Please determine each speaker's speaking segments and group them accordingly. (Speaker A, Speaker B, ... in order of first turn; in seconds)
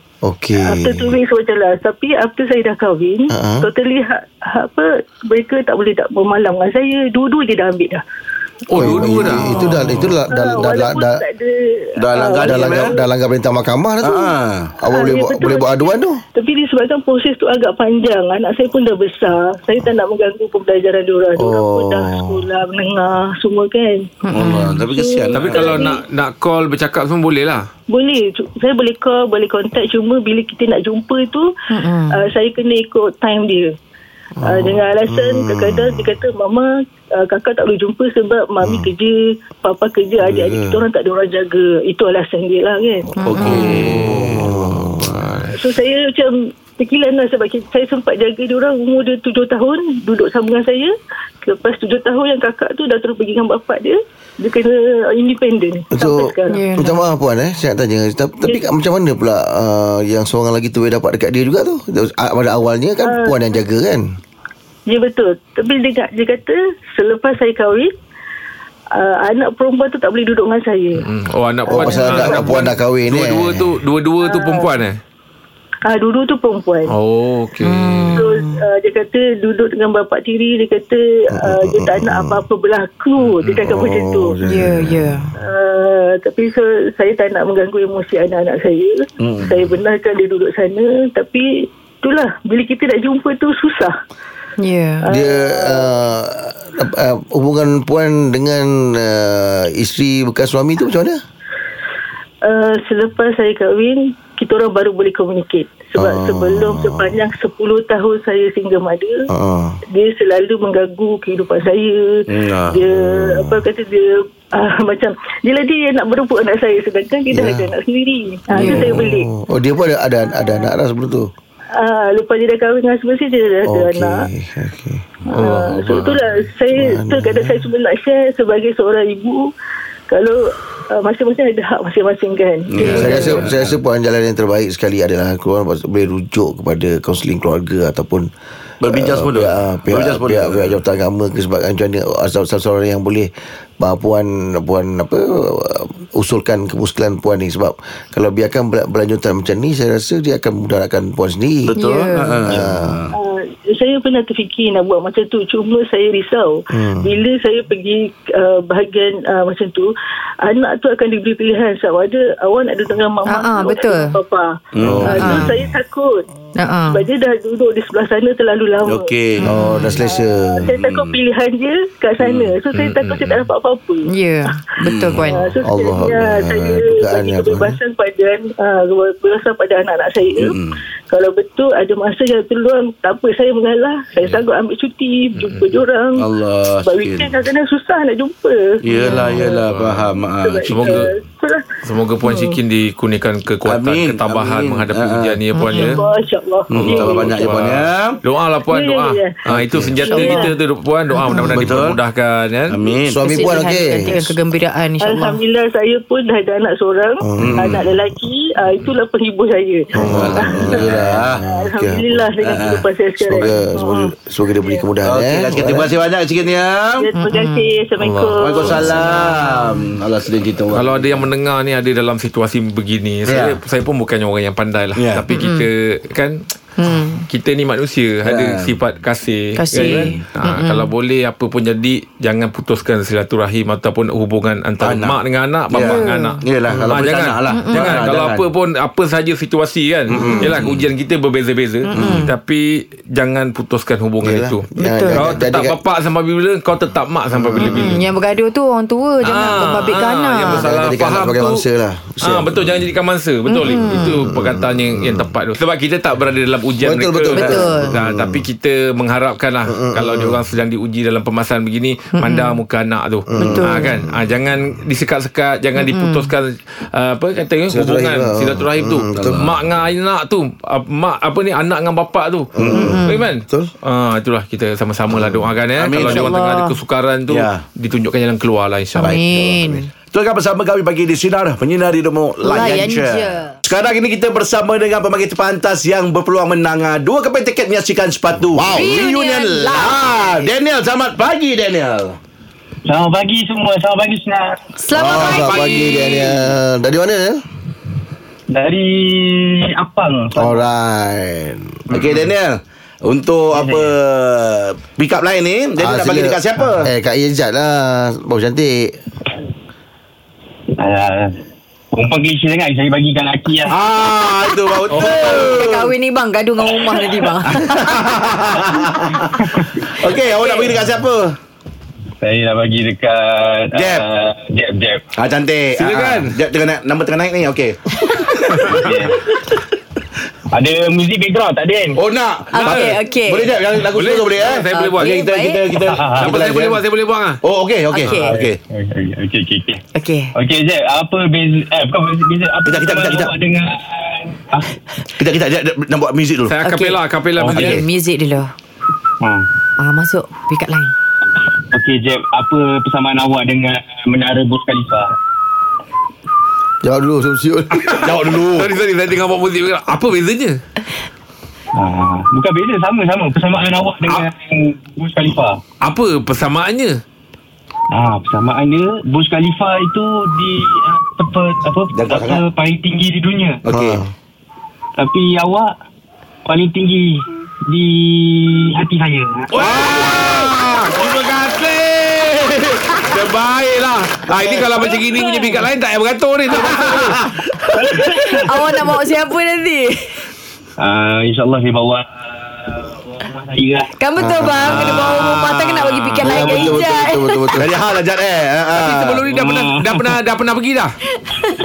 Speaker A: 0.2-1.1, 3.3-3.7, 8.8-11.2, 12.4-14.3, 14.8-16.2, 21.4-22.5, 34.4-36.1, 38.6-38.9, 40.2-40.8, 43.4-45.5, 55.9-64.1, 71.7-73.8, 81.4-82.4, 83.5-85.3, 95.1-101.2, 106.0-107.2, 109.3-109.8, 112.9-113.7, 117.3-117.7, 118.6-121.3, 123.6-125.0, 126.8-127.5, 132.8-138.3, 138.9-151.8, 152.4-153.0, 156.7-157.1, 164.8-165.7, 169.4-170.5, 175.6-177.8, 203.0-204.3, 207.2-207.6, 209.9-212.3, 213.2-215.9, 236.7-237.1, 244.2-245.8, 247.3-248.0, 250.4-252.9, 253.6-255.3, 256.8-258.5, 259.7-260.4, 263.3-264.2, 267.7-269.5, 272.6-273.7, 275.1-275.5, 288.5-288.9, 294.9-297.4, 300.3-301.8, 305.8-308.9, 356.8-358.3, 373.7-374.1, 394.2-395.1, 396.2-397.7
Speaker B: 0.6-8.0, 8.8-13.0, 14.9-26.0, 27.9-31.5, 32.1-33.7, 34.4-43.5, 45.6-50.9, 51.4-56.7, 58.4-58.7, 63.0-63.5, 64.9-67.9, 68.9-71.0, 71.7-72.6, 74.2-74.7, 75.8-76.9, 78.2-84.5, 85.4-93.9, 95.0-95.9, 102.4-109.1, 109.9-112.1, 112.7-119.3, 120.3-120.7, 121.7-124.2, 125.3-129.5, 130.1-133.3, 153.1-159.9, 160.4-166.2, 166.9-169.1, 169.9-174.1, 175.3-180.5, 181.1-186.2, 186.8-189.4, 190.4-191.6, 192.2-192.6, 195.7-197.6, 198.7-199.4, 200.0-200.5, 205.0-210.8, 211.4-214.1, 217.0-219.2
Speaker C: 8.7-10.0, 25.3-27.7, 43.7-45.6, 71.0-75.0, 76.9-78.3, 125.3-126.2, 172.7-173.5, 185.3-185.7, 189.3-190.1, 190.6-191.1, 191.8-196.1, 196.9-202.8, 218.0-218.8, 220.7-226.3, 227.3-248.0, 249.2-251.6, 252.2-279.2, 295.3-296.2, 314.9-315.2, 325.8-326.4, 328.5-329.0, 332.6-333.0, 333.8-335.2, 336.0-337.4, 346.5-347.8, 357.8-360.6, 365.8-367.0, 379.6-387.5, 394.6-396.8, 398.7-400.9
Speaker D: 9.9-10.1, 12.0-13.0, 14.0-14.7, 24.3-25.8, 43.2-44.3, 89.2-89.7, 112.3-112.8, 132.7-133.8, 138.8-140.8, 151.7-153.1, 164.8-165.5, 168.8-169.5, 170.6-171.2, 172.2-172.6, 174.8-175.4, 180.4-180.8, 186.2-187.3, 188.8-191.1, 193.6-195.4, 196.7-198.2, 199.4-200.4, 201.4-202.0, 202.7-203.6, 207.4-207.9, 210.0-211.5, 212.4-212.9, 215.0-217.1, 218.4-221.2, 223.2-223.6, 225.0-225.2, 228.2-228.7, 229.8-230.2, 234.8-235.2, 235.7-238.5, 240.1-240.9, 241.9-242.3, 269.1-269.6, 272.6-273.0, 275.7-276.4, 277.3-277.6, 279.0-292.2, 301.9-306.9, 313.6-315.9, 317.5-319.1, 320.0-321.3, 323.7-324.1, 325.2-327.8, 331.9-336.8, 337.4-338.6, 342.6-343.3, 345.2-346.5, 358.0-358.7, 371.9-372.4, 373.6-374.0, 379.5-381.3, 384.5-384.9, 397.5-399.3
Speaker E: 24.3-24.8, 31.7-32.1, 43.3-43.7, 56.5-56.9, 77.6-78.6, 84.4-85.2, 94.6-95.0, 118.5-118.9, 132.8-133.4, 151.8-152.4, 163.2-164.1, 165.0-165.5, 166.6-167.0, 169.5-169.8, 174.1-175.4, 189.1-189.4, 195.5-196.0, 203.2-205.4, 217.2-217.6, 225.3-225.7, 226.8-227.2, 229.6-230.8, 235.8-236.4, 237.5-238.0, 241.8-242.3, 244.8-245.3, 247.6-250.6, 253.5-254.1, 257.3-257.9, 262.1-262.6, 263.4-263.9, 265.8-266.3, 272.8-273.2, 276.0-276.8, 279.0-279.9, 282.4-283.6, 288.7-290.5, 294.8-295.6, 314.9-317.9, 332.5-333.5, 334.7-335.6, 337.9-338.4, 339.9-340.3, 346.6-347.0, 347.6-348.5, 349.8-350.9, 388.3-390.2, 394.0-397.4
Speaker F: 292.9-294.6, 298.5-300.5, 303.5-304.0, 310.8-311.4, 311.9-313.8, 322.2-325.1, 328.6-329.2, 330.5-332.0, 335.8-336.3, 338.1-339.8, 340.3-344.7, 347.4-347.7, 349.2-349.4, 351.7-355.1, 361.7-365.6, 367.9-373.6, 375.0-375.7, 376.4-380.1, 387.8-388.6, 390.8-393.9, 399.3-400.1